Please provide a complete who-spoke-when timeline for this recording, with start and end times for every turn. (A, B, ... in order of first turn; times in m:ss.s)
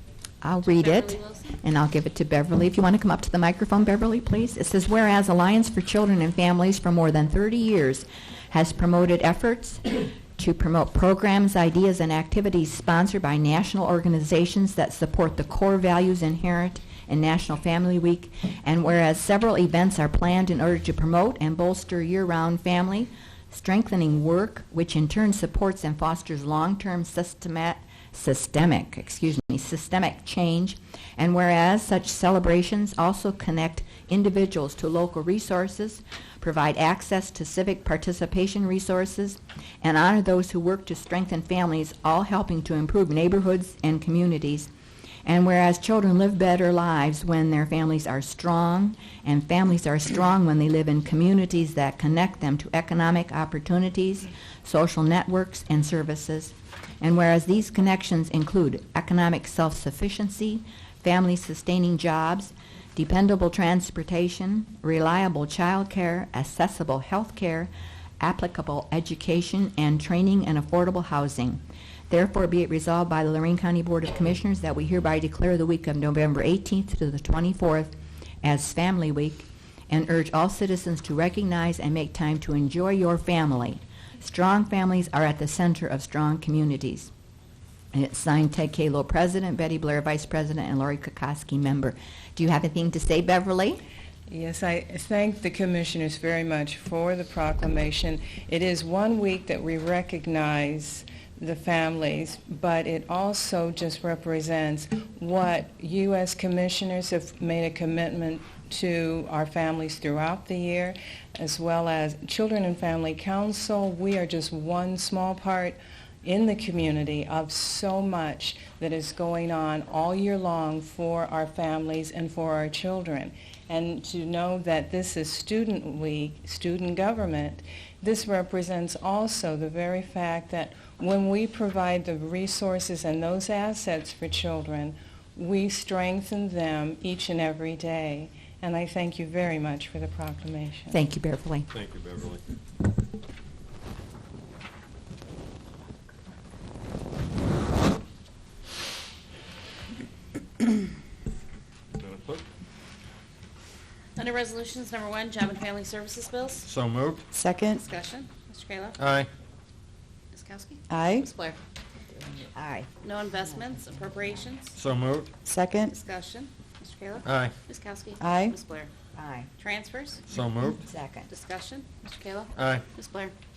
0:00.4-0:44.7 A
0:00.6-0:01.6 B
0:45.2-1:27.1 A
1:27.9-1:33.8 A
1:34.3-2:20.9 C
2:20.9-2:21.7 A
2:21.7-2:22.4 D
2:32.0-2:32.4 D
2:34.2-2:36.7 B
2:36.6-2:37.2 D
2:37.3-2:37.8 E
2:37.7-2:39.0 B
2:39.0-2:39.3 D
2:40.3-2:41.6 B
2:40.9-2:41.3 E
2:42.2-2:42.9 A
2:43.0-2:44.7 B
2:44.7-2:45.3 D
2:45.4-2:45.9 E
2:45.8-2:48.9 B
2:47.2-2:47.5 D
2:48.2-2:48.6 E
2:49.1-2:49.5 A
2:49.6-2:50.2 B
2:50.3-2:50.8 D
2:50.8-2:51.3 A
2:51.3-2:53.3 B
2:52.6-2:52.8 D